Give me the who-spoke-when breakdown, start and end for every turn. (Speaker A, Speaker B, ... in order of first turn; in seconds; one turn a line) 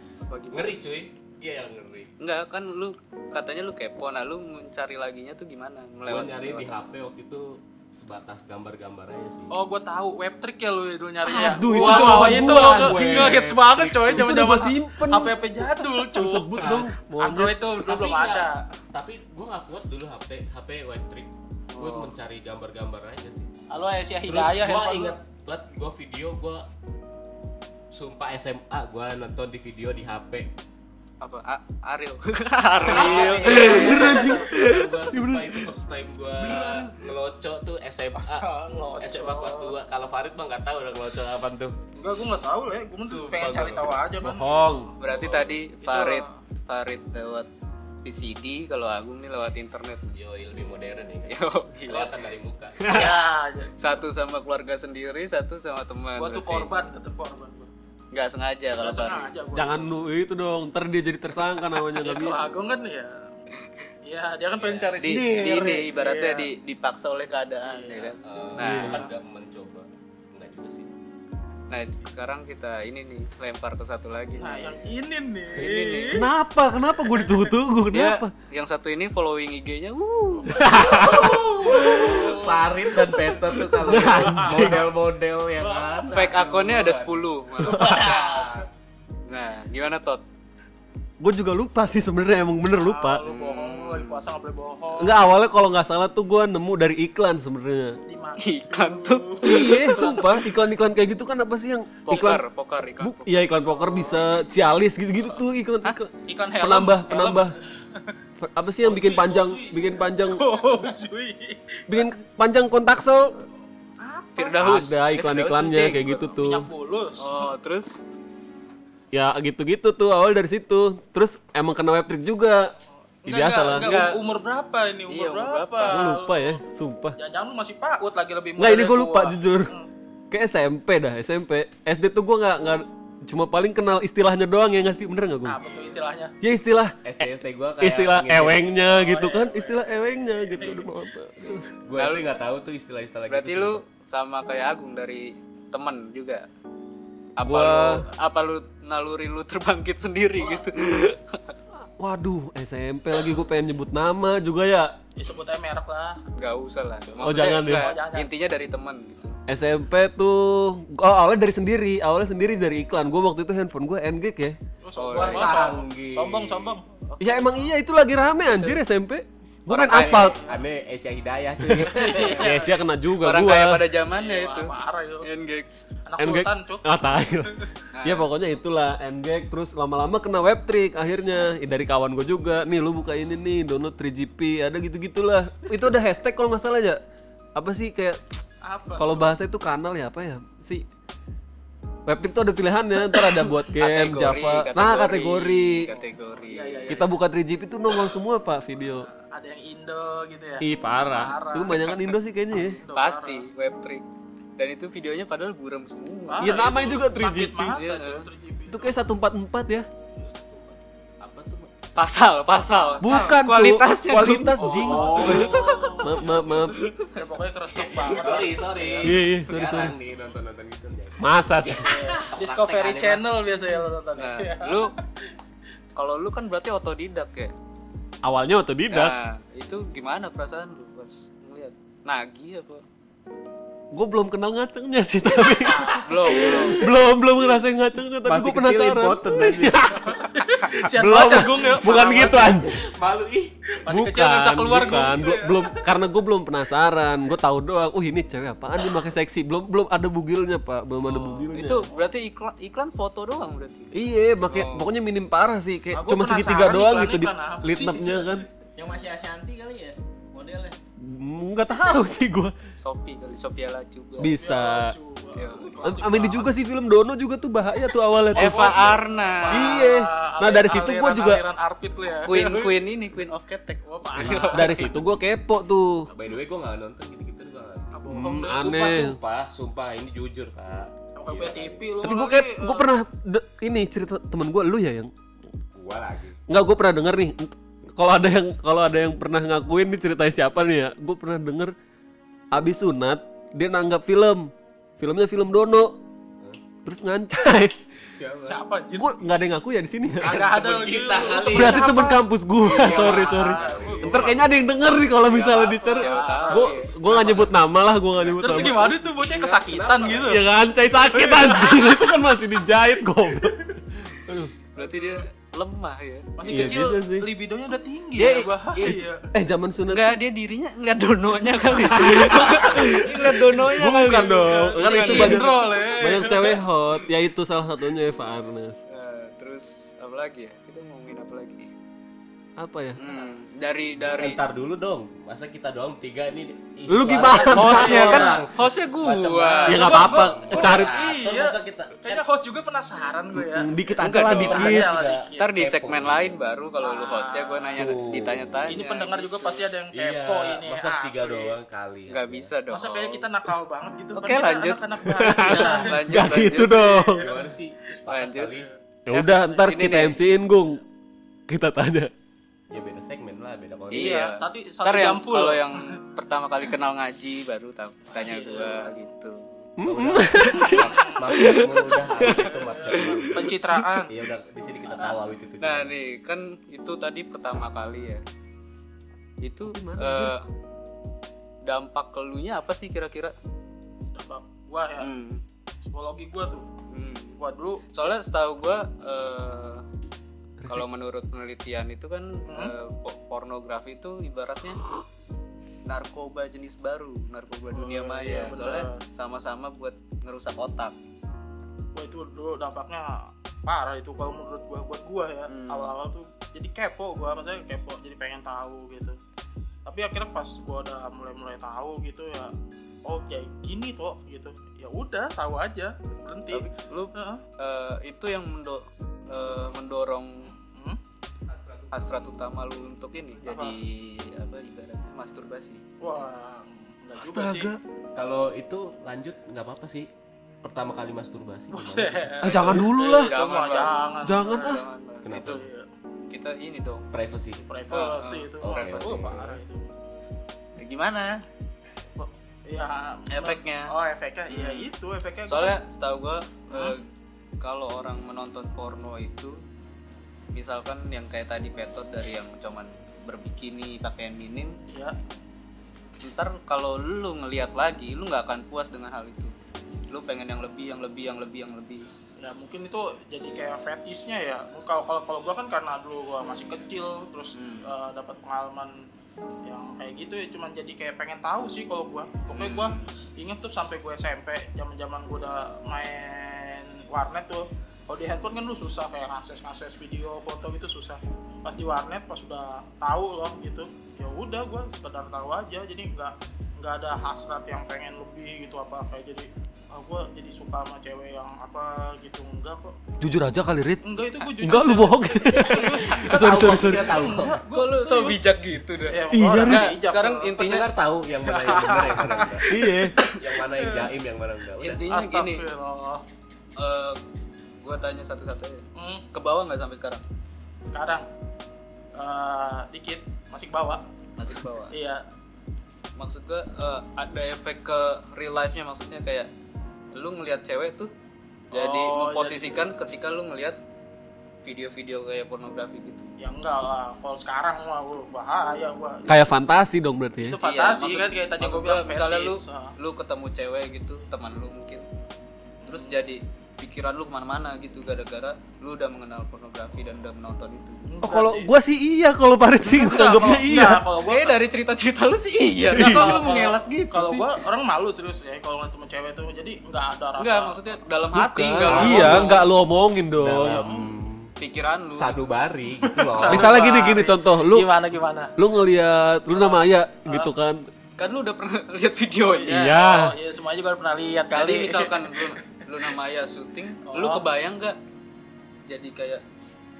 Speaker A: 0.3-0.7
Speaker B: 0.5-2.1
Speaker A: 2.2-6.7
Speaker B: 6.1-9.5
Speaker C: 9.5-18.6
Speaker D: 11.3-13.4
Speaker B: 11.7-14.2
Speaker D: 14.1-17.5
Speaker B: 16.6-16.9
Speaker B: 17.8-23.5
Speaker A: 21.7-22.1
Speaker C: 23.7-25.1
Speaker B: 24.2-26.6
Speaker B: 27.9-30.5
Speaker A: 31.2-34.8
Speaker C: 32.9-34.5
Speaker B: 32.9-38.4
Speaker D: 33.5-34.5
Speaker D: 35.1-35.6
Speaker D: 36.5-36.8
Speaker C: 36.5-36.9
Speaker C: 38.1-39.7
Speaker B: 39.0-41.7
Speaker C: 42.0-44.8
Speaker B: 43.0-44.0
Speaker D: 44.2-44.9
Speaker A: 45.0-47.5
Speaker B: 45.1-45.5
Speaker C: 45.8-46.3
Speaker A: 48.0-50.2
Speaker B: 50.2-52.8
Speaker A: 51.3-52.1
Speaker C: 51.9-52.3
Speaker D: 52.8-53.2
Speaker C: 52.9-53.7
Speaker A: 53.8-56.7
Speaker C: 56.2-57.7
Speaker A: 58.1-59.3
Speaker C: 58.8-59.9
Speaker D: 59.5-62.4
Speaker C: 62.0-63.3
Speaker C: 64.0-66.5
Speaker B: 64.6-65.0
Speaker A: 65.0-69.0
Speaker C: 67.6-68.2
Speaker B: 68.2-70.9
Speaker D: 68.6-69.0
Speaker A: 71.7-74.9
Speaker C: 74.4-76.2
Speaker A: 75.5-76.2
Speaker D: 76.1-78.3
Speaker A: 77.9-80.7
Speaker C: 80.3-84.8
Speaker D: 80.6-81.5
Speaker B: 80.6-88.7
Speaker D: 83.8-84.9
Speaker C: 85.6-86.4
Speaker A: 86.1-88.4
Speaker D: 87.7-88.0
Speaker C: 87.7-88.6
Speaker A: 89.3-90.2
Speaker D: 91.2-93.2
Speaker C: 92.8-95.1
Speaker A: 93.2-94.2
Speaker D: 95.0-98.0
Speaker C: 98.1-100.4
Speaker A: 98.4-100.0
Speaker D: 99.4-102.4
Speaker A: 102.0-103.3
Speaker D: 103.0-107.5
Speaker C: 103.7-104.2
Speaker C: 106.2-108.1
Speaker D: 108.4-110.4
Speaker C: 108.8-112.1
Speaker D: 111.9-113.3
Speaker C: 114.0-114.6
Speaker A: 114.4-116.0
Speaker D: 114.6-116.7
Speaker C: 115.7-117.5
Speaker A: 117.2-118.0
Speaker D: 119.1-122.6
Speaker C: 123.2-126.6
Speaker D: 123.2-123.9
Speaker A: 123.8-124.2
Speaker A: 125.1-126.0
Speaker D: 125.8-127.2
Speaker C: 127.2-129.9
Speaker D: 128.6-129.7
Speaker D: 130.3-135.6
Speaker C: 135.4-136.3
Speaker B: 135.6-135.9
Speaker D: 136.4-136.9
Speaker B: 137.0-138.6
Speaker D: 137.8-141.7
Speaker C: 138.8-140.8
Speaker B: 141.8-143.8
Speaker A: 141.9-142.3
Speaker A: 143.3-146.4
Speaker A: 147.4-151.5
Speaker D: 147.5-147.9
Speaker D: 152.0-154.9
Speaker C: 155.2-156.2
Speaker A: 156.3-159.3
Speaker D: 157.2-157.9
Speaker C: 157.2-158.3
Speaker D: 159.5-164.6
Speaker C: 164.8-166.8
Speaker A: 164.9-165.7
Speaker B: 165.1-166.8
Speaker A: 167.1-167.7
Speaker D: 167.2-170.4
Speaker A: 169.7-170.3
Speaker C: 170.1-170.6
Speaker B: 170.4-172.4
Speaker D: 171.7-173.8
Speaker C: 171.9-172.8
Speaker A: 172.0-172.4
Speaker A: 173.2-175.7
Speaker C: 174.0-175.3
Speaker C: 176.1-176.8
Speaker D: 176.2-187.0
Speaker A: 177.9-178.3
Speaker D: 187.6-188.2
Speaker C: 188.6-189.3
Speaker D: 188.9-190.8
Speaker D: 192.1-195.8
Speaker A: 193.8-197.0
Speaker C: 195.9-197.1
Speaker D: 196.9-199.1
Speaker C: 199.0-203.4
Speaker D: 200.6-202.8
Speaker A: 202.9-204.0
Speaker A: 204.6-206.6
Speaker C: 206.3-208.9
Speaker D: 206.4-207.8
Speaker A: 207.7-208.3
Speaker D: 208.7-209.9
Speaker B: 210.2-212.0
Speaker A: 211.9-216.0
Speaker C: 212.9-213.2
Speaker D: 213.0-216.7
Speaker C: 214.6-216.0
Speaker B: 214.7-216.7
Speaker A: 216.7-217.1
Speaker C: 217.1-219.1
Speaker B: 217.7-223.2
Speaker D: 219.0-219.9
Speaker D: 221.2-222.1
Speaker C: 221.8-224.8
Speaker A: 224.2-224.9
Speaker A: 225.9-227.5
Speaker D: 228.2-229.1
Speaker A: 228.9-232.8
Speaker D: 233.9-240.2
Speaker A: 236.0-236.8
Speaker B: 238.2-240.0
Speaker C: 240.3-242.7
Speaker D: 240.8-242.9
Speaker B: 241.9-243.5
Speaker C: 243.8-245.8
Speaker D: 243.9-251.8
Speaker A: 251.1-253.9
Speaker D: 253.9-258.4
Speaker A: 254.5-254.9
Speaker C: 255.9-258.4
Speaker E: 258.8-260.8
Speaker D: 261.0-262.5
Speaker A: 262.8-264.3
Speaker D: 264.2-264.9
Speaker C: 264.3-266.5
Speaker A: 265.3-266.0
Speaker D: 265.8-269.0
Speaker A: 268.3-269.9
Speaker C: 268.3-272.7
Speaker D: 269.5-271.4
Speaker A: 272.2-275.0
Speaker C: 273.9-274.9
Speaker D: 274.2-276.1
Speaker B: 276.1-277.9
Speaker C: 277.9-279.1
Speaker D: 278.1-279.2
Speaker B: 278.5-281.9
Speaker C: 281.2-282.8
Speaker D: 282.0-285.1
Speaker B: 285.8-286.4
Speaker D: 286.5-291.7
Speaker D: 292.5-295.9
Speaker D: 296.8-297.7
Speaker B: 298.0-298.6
Speaker C: 298.4-299.1
Speaker D: 298.9-300.3
Speaker C: 300.1-304.5
Speaker B: 300.2-302.0
Speaker D: 301.5-308.9
Speaker B: 302.6-304.4
Speaker A: 305.2-306.9
Speaker C: 305.6-307.4
Speaker B: 307.1-307.4
Speaker B: 308.2-310.4
Speaker C: 308.4-310.4
Speaker D: 310.2-314.5
Speaker C: 311.1-312.1
Speaker A: 314.8-316.3
Speaker C: 314.8-315.2
Speaker C: 316.4-319.3
Speaker D: 316.5-317.3
Speaker A: 318.1-319.0
Speaker D: 318.9-320.2
Speaker A: 319.9-325.6
Speaker D: 322.0-323.0
Speaker D: 323.8-328.8
Speaker C: 324.2-326.6
Speaker A: 328.9-331.7
Speaker D: 332.6-333.0
Speaker A: 333.0-334.4
Speaker C: 333.0-333.3
Speaker B: 334.0-342.2
Speaker D: 336.9-338.3
Speaker C: 337.4-338.4
Speaker A: 337.5-339.8
Speaker D: 339.7-341.0
Speaker C: 339.7-345.5
Speaker D: 343.3-344.9
Speaker A: 344.0-344.6
Speaker B: 344.4-346.4
Speaker A: 345.4-349.6
Speaker C: 346.8-347.7
Speaker B: 347.8-348.7
Speaker C: 348.7-351.5
Speaker B: 349.9-352.5
Speaker A: 352.1-353.2
Speaker C: 352.7-356.0
Speaker A: 354.1-357.2
Speaker D: 355.1-357.2
Speaker C: 357.2-357.4
Speaker B: 357.2-358.7
Speaker A: 358.1-358.5
Speaker D: 359.1-360.8
Speaker A: 359.1-360.2
Speaker D: 361.5-362.1
Speaker B: 362.7-364.2
Speaker C: 363.9-365.8
Speaker A: 363.9-369.5
Speaker C: 368.1-368.9
Speaker D: 369.8-373.9
Speaker B: 369.8-373.5
Speaker A: 370.5-370.8
Speaker C: 370.6-371.5
Speaker C: 372.2-374.1
Speaker B: 374.1-375.8
Speaker C: 374.9-375.1
Speaker A: 375.6-378.2
Speaker A: 379.4-380.4
Speaker D: 379.7-380.3
Speaker A: 381.7-383.3
Speaker C: 384.1-385.1
Speaker A: 385.0-385.4
Speaker C: 385.9-386.6
Speaker A: 386.9-387.4
Speaker C: 387.4-387.9
Speaker A: 387.9-389.8
Speaker D: 390.6-390.9
Speaker A: 390.6-394.8
Speaker A: 395.9-400.9
Speaker C: 397.7-399.0
Speaker C: 401.9-409.2
Speaker A: 405.5-405.9
Speaker C: 409.9-412.5
Speaker C: 413.0-417.4
Speaker A: 416.5-420.3
Speaker C: 420.7-421.0
Speaker A: 421.9-425.8
Speaker C: 423.4-423.8
Speaker C: 426.0-427.7
Speaker D: 427.2-427.8
Speaker B: 428.2-430.1
Speaker B: 430.6-432.7
Speaker C: 431.7-434.8
Speaker D: 432.4-433.3
Speaker A: 433.3-435.6
Speaker D: 434.2-434.7
Speaker B: 435.2-435.6
Speaker C: 435.4-435.9
Speaker A: 436.3-437.0
Speaker B: 437.1-437.6
Speaker C: 437.6-439.9
Speaker A: 437.9-439.4
Speaker B: 438.6-439.6
Speaker A: 440.8-441.4
Speaker C: 442.1-445.8
Speaker A: 443.3-443.9
Speaker A: 444.5-444.9
Speaker A: 445.5-447.0
Speaker A: 447.6-449.6
Speaker A: 450.5-454.8
Speaker A: 456.2-459.5
Speaker A: 460.1-462.1
Speaker C: 462.4-468.9
Speaker A: 467.5-467.9
Speaker C: 469.6-492.9
Speaker A: 472.5-473.1
Speaker D: 493.2-497.5
Speaker C: 494.0-498.4
Speaker B: 495.5-497.6
Speaker A: 497.7-500.9
Speaker C: 499.1-500.6
Speaker D: 499.3-499.9
Speaker B: 500.6-502.7
Speaker C: 501.4-503.1
Speaker D: 502.7-503.1
Speaker B: 503.3-505.0
Speaker C: 503.7-504.1
Speaker A: 504.8-505.6
Speaker C: 505.1-506.2
Speaker A: 506.8-507.2
Speaker A: 507.8-510.2
Speaker C: 509.0-509.2
Speaker C: 510.9-511.3
Speaker C: 512.1-514.0
Speaker A: 514.4-514.9
Speaker C: 514.9-515.2
Speaker A: 516.2-519.5
Speaker A: 520.1-521.1
Speaker A: 521.7-523.8
Speaker C: 521.7-522.9
Speaker A: 524.6-526.3
Speaker C: 526.4-529.3
Speaker D: 529.3-530.6
Speaker C: 530.4-532.9
Speaker A: 530.6-535.0
Speaker A: 535.8-541.0
Speaker C: 535.9-536.1
Speaker C: 541.1-541.7
Speaker D: 541.2-544.0
Speaker C: 542.9-544.6
Speaker A: 544.2-547.4
Speaker D: 545.9-546.4
Speaker C: 545.9-550.8
Speaker A: 550.4-552.7
Speaker D: 551.3-553.8
Speaker B: 551.8-552.6
Speaker C: 552.1-552.4
Speaker B: 553.4-554.5
Speaker C: 553.7-554.1
Speaker A: 554.6-555.4
Speaker B: 555.1-557.0
Speaker C: 556.0-558.5
Speaker D: 556.5-557.9
Speaker D: 558.6-560.8
Speaker C: 559.5-560.5
Speaker A: 561.2-563.0
Speaker C: 562.4-565.4
Speaker D: 562.7-563.3
Speaker A: 564.5-568.0
Speaker C: 567.1-567.4
Speaker A: 568.9-569.4